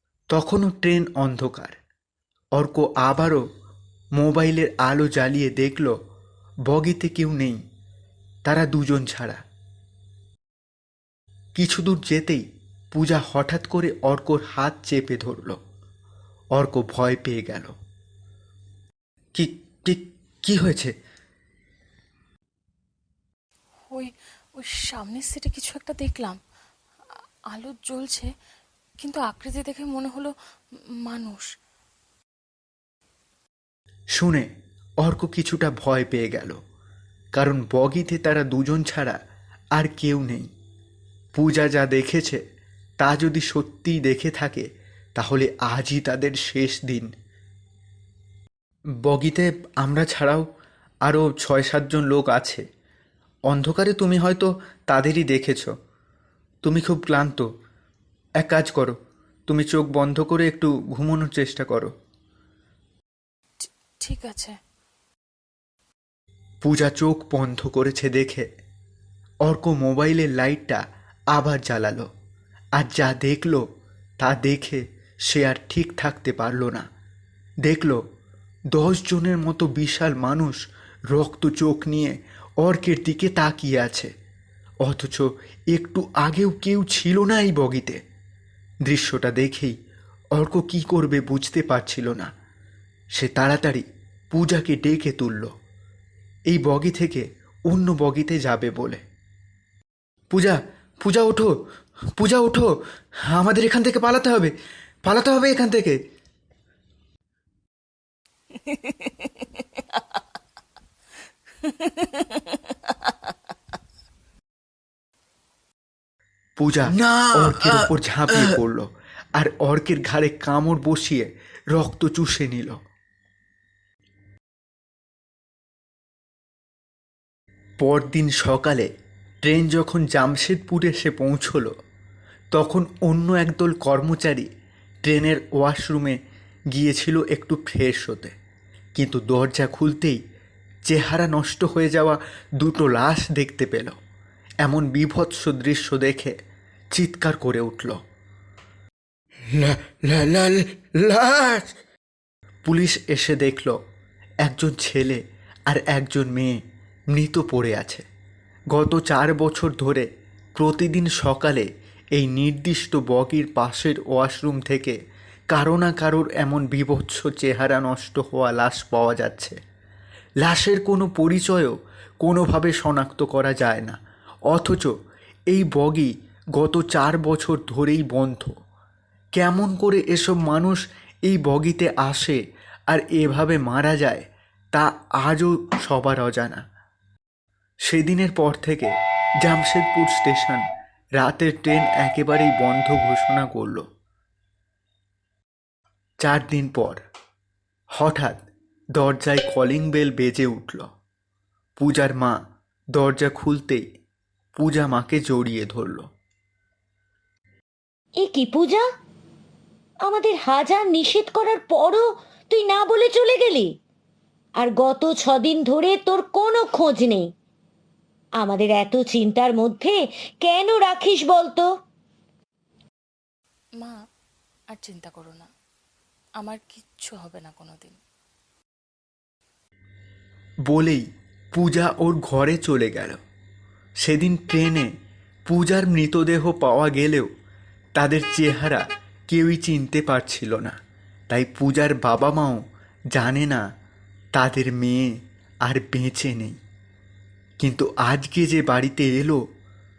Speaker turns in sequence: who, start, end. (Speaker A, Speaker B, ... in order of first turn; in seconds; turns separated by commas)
Speaker A: 0.3-1.8, Speaker A: 2.6-3.4, Speaker A: 4.2-5.9, Speaker A: 6.7-7.6, Speaker A: 8.4-9.4, Speaker A: 11.6-15.6, Speaker A: 16.6-17.7, Speaker A: 19.4-20.9, Speaker B: 23.9-26.4, Speaker B: 27.5-28.3, Speaker B: 29.0-30.3, Speaker B: 31.1-31.4, Speaker A: 34.2-34.5, Speaker A: 35.0-36.6, Speaker A: 37.3-39.2, Speaker A: 39.8-40.5, Speaker A: 41.4-42.4, Speaker A: 43.0-44.7, Speaker A: 45.2-47.1, Speaker A: 49.0-50.5, Speaker A: 51.0-52.6, Speaker A: 53.5-55.7, Speaker A: 56.6-57.5, Speaker A: 58.4-59.0, Speaker A: 59.5-61.9, Speaker B: 63.6-64.6, Speaker A: 66.6-68.5, Speaker A: 69.4-70.8, Speaker A: 71.3-72.1, Speaker A: 72.8-73.7, Speaker A: 74.2-76.9, Speaker A: 77.7-78.0, Speaker A: 78.7-84.1, Speaker A: 84.8-88.0, Speaker A: 88.9-89.8, Speaker A: 90.3-92.3, Speaker A: 93.2-95.5, Speaker A: 96.5-99.0, Speaker A: 100.3-101.5, Speaker A: 102.2-102.7, Speaker A: 103.3-104.5, Speaker A: 105.0-106.0, Speaker B: 108.5-110.2, Speaker B: 111.6-113.3, Speaker A: 116.6-122.8, Speaker C: 116.9-118.6, Speaker A: 127.8-128.9, Speaker A: 129.4-131.7, Speaker A: 132.5-134.5, Speaker A: 135.1-136.2, Speaker A: 136.7-138.3, Speaker A: 138.9-140.2, Speaker A: 140.9-143.9, Speaker A: 144.6-146.3, Speaker A: 146.9-148.0, Speaker C: 149.5-151.7, Speaker A: 152.7-153.8, Speaker A: 154.4-156.6, Speaker A: 157.1-158.1, Speaker A: 158.7-165.0, Speaker A: 165.5-169.6, Speaker A: 170.4-174.0, Speaker A: 174.5-174.9, Speaker A: 175.5-178.5, Speaker A: 179.4-182.4, Speaker A: 182.9-186.6, Speaker A: 187.9-188.9, Speaker A: 189.4-190.6, Speaker A: 191.2-193.8, Speaker A: 196.2-197.0, Speaker A: 198.0-198.4, Speaker A: 199.0-200.9, Speaker A: 201.8-202.4, Speaker A: 203.0-203.8, Speaker A: 204.6-206.1, Speaker D: 208.2-208.8, Speaker D: 210.1-213.7, Speaker D: 214.6-217.3, Speaker D: 218.4-221.7, Speaker B: 224.7-225.5, Speaker B: 226.4-228.0, Speaker A: 230.7-233.2, Speaker A: 234.0-234.9, Speaker A: 235.5-237.3, Speaker A: 238.0-240.8, Speaker A: 241.3-242.6, Speaker A: 243.1-243.6, Speaker A: 244.3-246.6, Speaker A: 247.6-249.4